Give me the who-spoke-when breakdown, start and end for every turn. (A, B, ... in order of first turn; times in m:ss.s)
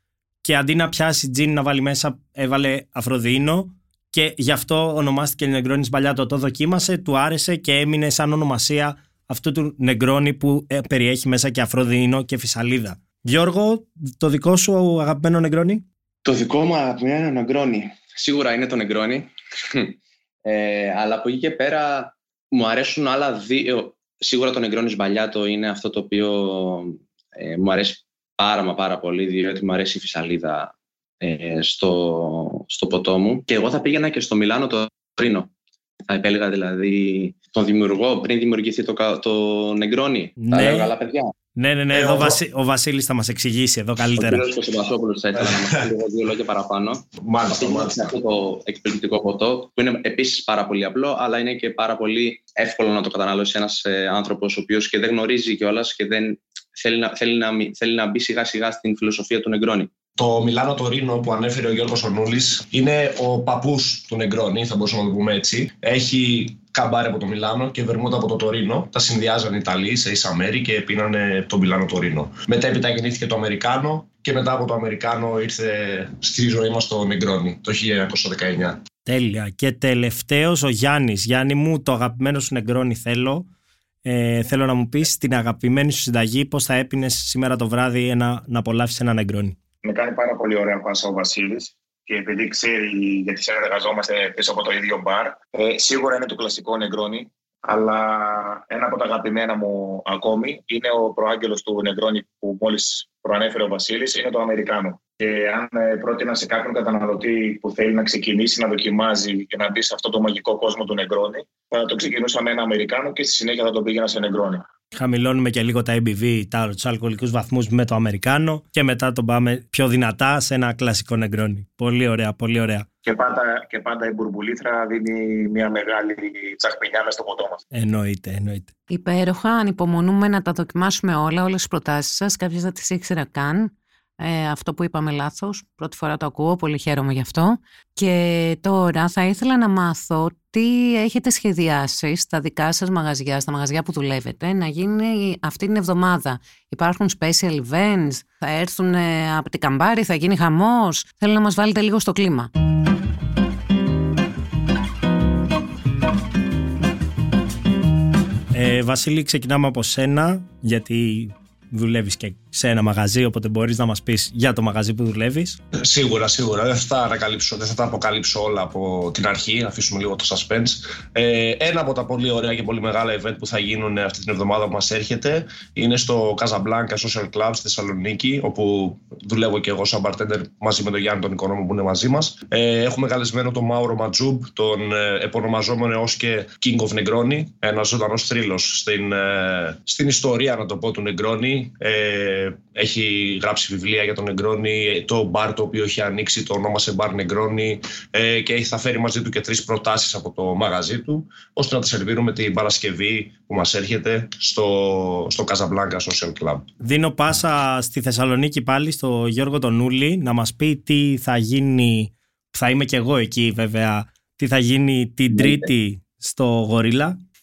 0:00.4-0:15.8 A
0:16.2-0:35.5 B
0:36.1-0:41.3 B
0:40.4-0:40.9 A
0:41.6-0:44.4 A
0:41.9-0:42.4 C
0:44.1-0:59.9 B
0:47.2-0:48.1 C
1:00.2-1:18.8 C
1:19.0-1:23.5 A
1:24.0-1:29.6 A
1:29.8-1:54.7 D
1:54.9-2:02.8 A
2:03.0-2:07.6 D
2:07.7-2:08.7 A
2:08.9-2:32.5 E
2:38.5-2:45.6 A
2:45.8-3:26.7 C
3:26.8-3:37.2 A
3:35.3-3:35.7 B